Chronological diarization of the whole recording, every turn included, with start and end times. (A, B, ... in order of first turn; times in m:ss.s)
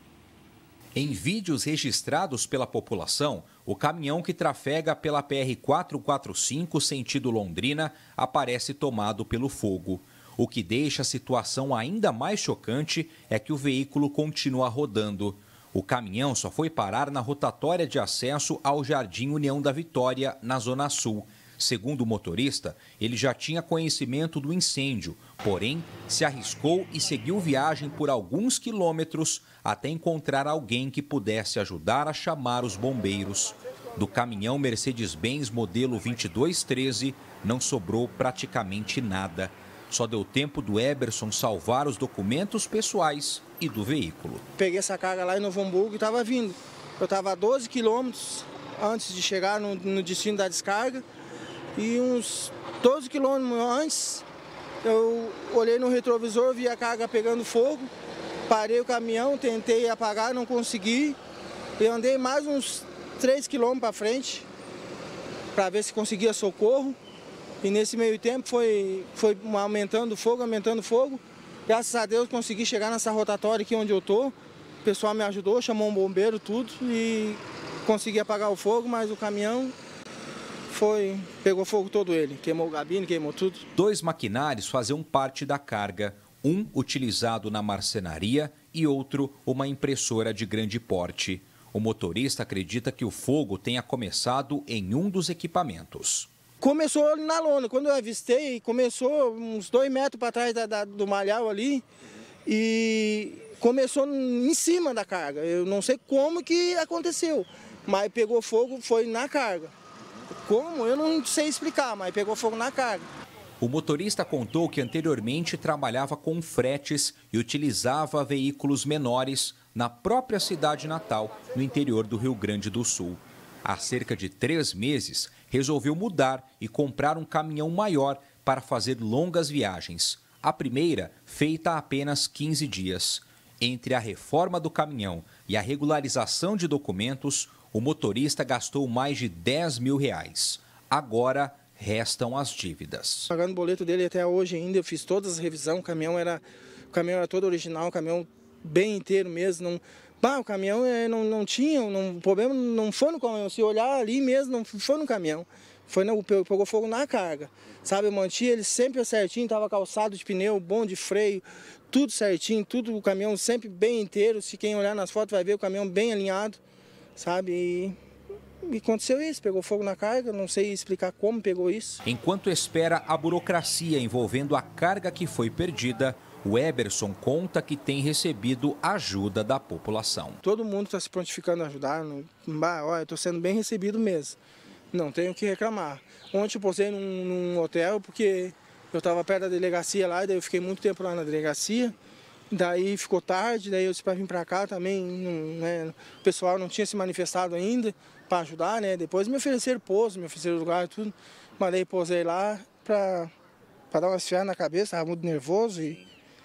0:00.9-0:44.4 A
0:44.6-0:51.0 B
0:51.8-0:54.2 B
0:54.8-0:57.9 B
0:58.5-1:01.2 B
1:01.8-1:04.5 B
1:05.5-1:07.0 B
1:07.6-1:19.7 B
1:20.7-1:23.6 B
1:23.7-1:36.3 A
1:36.6-1:41.8 B
1:42.4-1:49.7 B
1:50.4-1:53.1 B
1:53.6-2:23.3 A
2:23.3-2:46.6 B
2:47.2-2:48.0 B
2:48.6-2:52.0 B
2:52.0-3:00.4 A
3:00.4-3:04.4 B
3:04.9-3:11.9 B
3:12.5-3:23.3 B
3:23.9-3:26.0 B